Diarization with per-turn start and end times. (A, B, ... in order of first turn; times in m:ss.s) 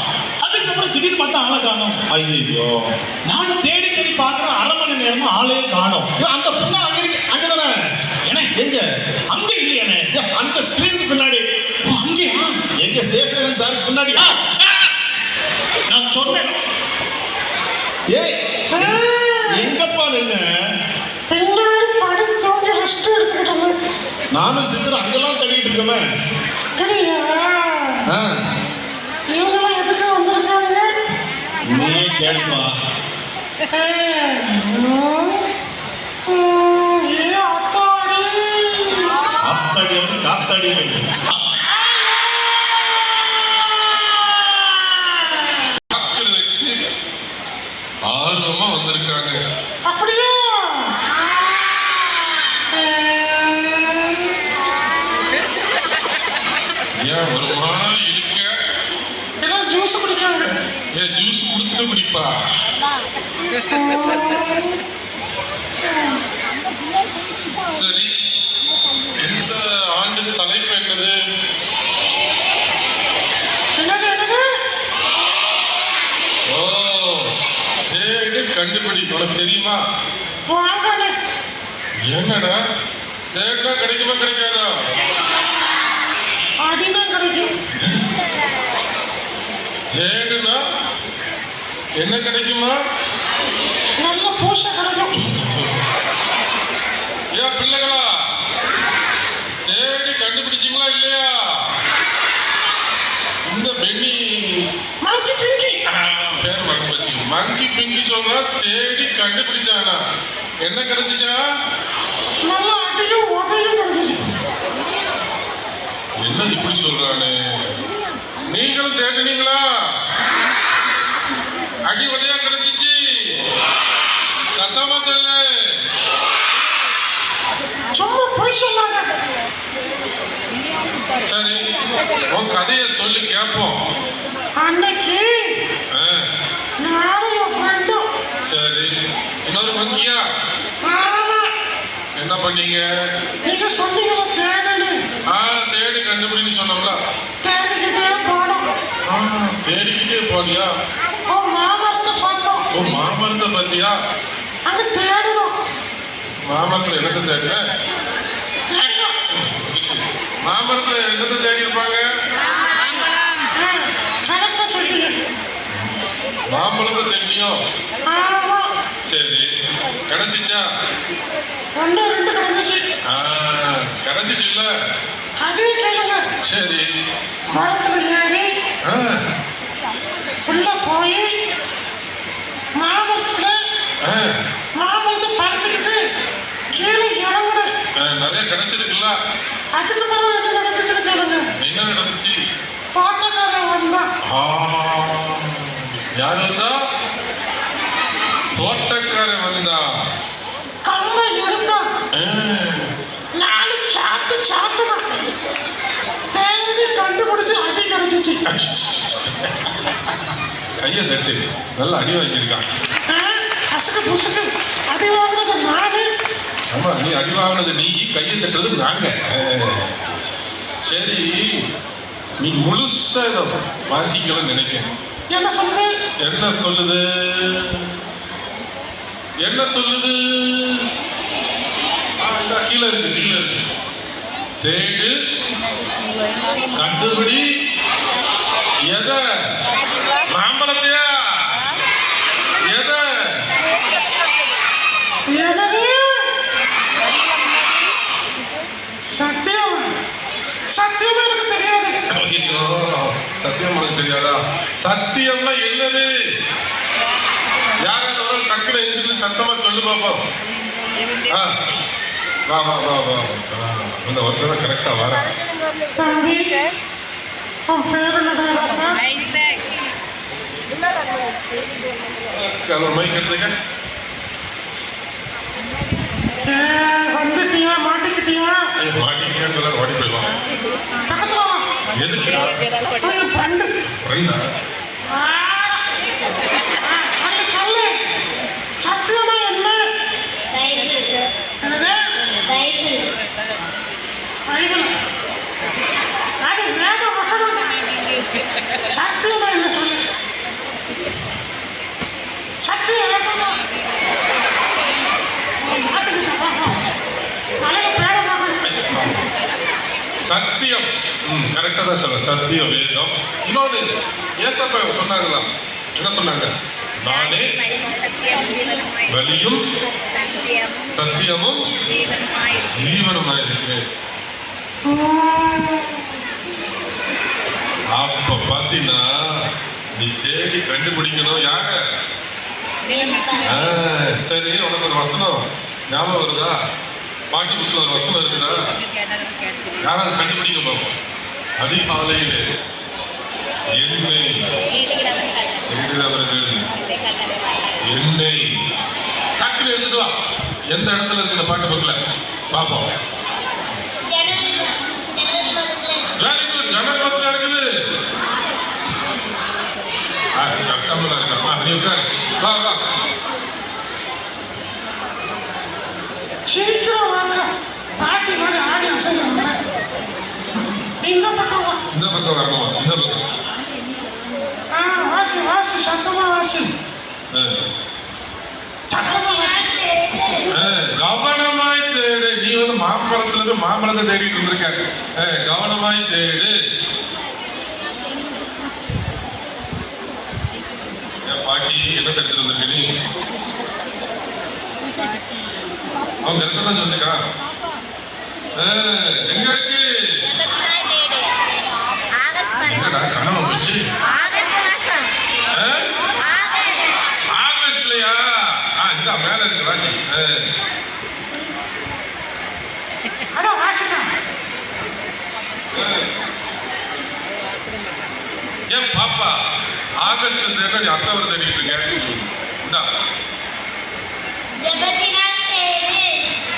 0:00.4-0:02.0 A
0:02.1-0:02.8 B
0:03.3-0:06.0 A
0:06.2-0:07.7 B
0:08.5-0:08.8 B
0:09.3-0:10.0 A
0:10.1-0:11.4 B
0:11.9-0:12.5 A
0:12.8-0:14.4 B
0:15.9-0:16.6 A
0:18.1-0:20.4 B
0:21.3-0:23.7 C
0:24.3-0:26.0 B
0:26.8-0:28.0 C
0:29.3-0:30.8 C
0:31.6-0:32.7 B
0:31.7-0:32.6 D
0:33.7-0:35.4 C
0:36.3-0:39.1 C
0:39.5-0:41.0 B
0:41.8-0:42.3 C
0:42.4-0:42.7 A
0:44.0-0:44.9 A
0:45.9-0:46.7 E
0:48.0-0:49.4 E
0:49.8-0:50.9 C
0:52.7-0:53.9 C
0:57.0-0:58.5 E
0:59.4-1:00.5 C
1:01.0-1:02.4 E
1:03.7-1:04.8 C
1:07.6-1:08.1 E
1:09.2-1:11.2 E
1:13.8-1:14.4 C
1:16.5-1:17.3 E
1:17.9-1:19.8 E
1:20.5-1:21.2 C
1:22.1-1:22.6 E
1:23.3-1:24.7 E
1:26.6-1:27.5 C
1:29.9-1:30.6 E
1:32.0-1:32.7 E
1:34.0-1:35.1 C
1:35.1-1:35.7 E
1:37.3-1:38.1 E
1:39.6-1:41.6 E
1:43.5-1:44.6 E
1:45.0-1:45.7 C
1:45.9-1:50.0 E
1:50.6-1:51.4 E
1:52.5-1:52.9 C
1:53.4-1:54.2 C
1:56.2-1:57.6 E
1:58.4-1:59.6 E
2:01.9-2:03.0 E
2:04.6-2:05.4 E
2:08.0-2:09.1 C
2:11.2-2:11.6 E
2:12.3-2:13.8 E
2:14.6-2:15.2 C
2:15.9-2:16.2 E
2:16.8-2:18.0 C
2:18.4-2:18.9 E
2:19.4-2:20.2 E
2:20.8-2:21.4 C
2:22.2-2:22.8 E
2:23.4-2:25.0 C
2:25.3-2:27.0 E
2:27.4-2:28.7 C
2:29.0-2:30.7 E
2:31.3-2:32.6 C
2:32.7-2:33.9 E
2:34.7-2:35.5 C
2:36.5-2:37.6 E
2:38.7-2:39.1 C
2:39.4-2:42.0 E
2:44.3-2:45.1 C
2:46.5-2:47.6 E
2:48.1-2:48.7 C
2:49.0-2:49.5 E
2:50.1-2:50.6 E
2:51.8-2:52.8 C
2:53.1-2:54.7 E
2:55.4-2:56.2 C
2:56.4-2:56.9 E
2:57.6-2:58.5 C
2:58.8-2:59.2 E
3:00.5-3:01.2 C
3:02.8-3:03.6 C
3:04.0-3:04.3 E
3:04.8-3:05.9 C
3:06.8-3:07.6 C
3:08.0-3:09.1 E
3:09.8-3:11.4 C
3:11.6-3:12.3 E
3:13.0-3:14.0 C
3:14.2-3:16.7 E
3:18.5-3:19.8 E
3:20.9-3:21.8 C
3:22.2-3:22.9 E
3:23.4-3:25.0 C
3:26.4-3:28.4 C
3:28.5-3:29.7 E
3:30.8-3:32.6 E
3:33.2-3:34.1 C
3:34.9-3:36.1 C
3:36.7-3:39.9 E
3:40.8-3:41.3 E
3:42.4-3:44.9 E
3:45.3-3:45.9 C
3:46.2-3:48.0 E
3:49.4-3:50.8 E
3:52.2-3:53.7 E
3:54.6-3:55.1 E
3:56.7-3:57.5 E
3:58.9-3:59.2 E
4:00.3-4:01.6 E
4:02.6-4:03.0 E
4:05.4-4:05.8 C
4:10.9-4:11.7 A
4:12.2-4:16.0 E
4:17.8-4:20.2 E
4:22.5-4:25.3 E
4:26.0-4:26.4 C
4:27.8-4:28.8 C
4:32.3-4:33.5 E
4:36.5-4:38.5 C
4:38.8-4:40.3 E
4:41.1-4:41.6 C
4:41.9-4:42.6 E
4:43.0-4:43.7 C
4:44.0-4:44.4 E
4:45.2-4:45.8 C
4:46.9-4:47.9 C
4:48.8-4:49.8 C
4:50.5-4:51.1 D
4:51.6-4:52.0 C
4:52.4-4:53.0 D
4:54.5-4:54.9 C
4:56.4-4:57.7 C
4:58.9-5:00.0 C
5:02.6-5:03.6 C
5:05.6-5:06.8 C
5:07.6-5:08.6 C
5:08.7-5:09.3 E
5:10.2-5:13.8 E
5:14.4-5:15.4 E
5:16.0-5:17.5 E
5:17.8-5:18.8 D
5:19.1-5:19.6 E
5:20.2-5:20.8 D
5:20.9-5:21.6 E
5:22.2-5:22.5 D
5:22.6-5:23.8 E
5:24.9-5:26.0 A
5:27.9-5:29.1 E
5:30.0-5:31.8 E
5:32.8-5:33.6 D
5:33.4-5:36.5 E
5:37.3-5:38.6 E
5:39.8-5:40.9 E
5:41.6-5:42.4 E
5:43.8-5:44.3 E
5:45.7-5:46.7 E
5:47.8-5:48.4 E
5:49.4-5:50.1 E
5:50.7-5:52.0 E
5:52.5-5:52.9 E
5:54.1-5:56.0 D
5:56.2-5:57.6 E
6:00.4-6:02.8 E
6:06.5-6:09.6 C
6:11.0-6:11.8 C
6:11.9-6:13.2 E
6:14.8-6:16.7 C
6:18.9-6:19.6 C
6:19.3-6:20.5 D
6:20.6-6:26.5 E
6:31.2-6:32.9 E
6:36.2-6:37.2 E
6:38.6-6:40.3 E
6:40.2-6:41.4 D
6:42.2-6:43.0 D
6:42.6-6:43.8 E
6:44.0-6:45.1 D
6:46.2-6:47.0 D
6:47.3-6:50.4 E
6:53.3-6:54.1 C
6:55.7-6:56.1 E
6:58.7-6:59.4 E
7:00.0-7:02.8 E
7:04.6-7:06.1 D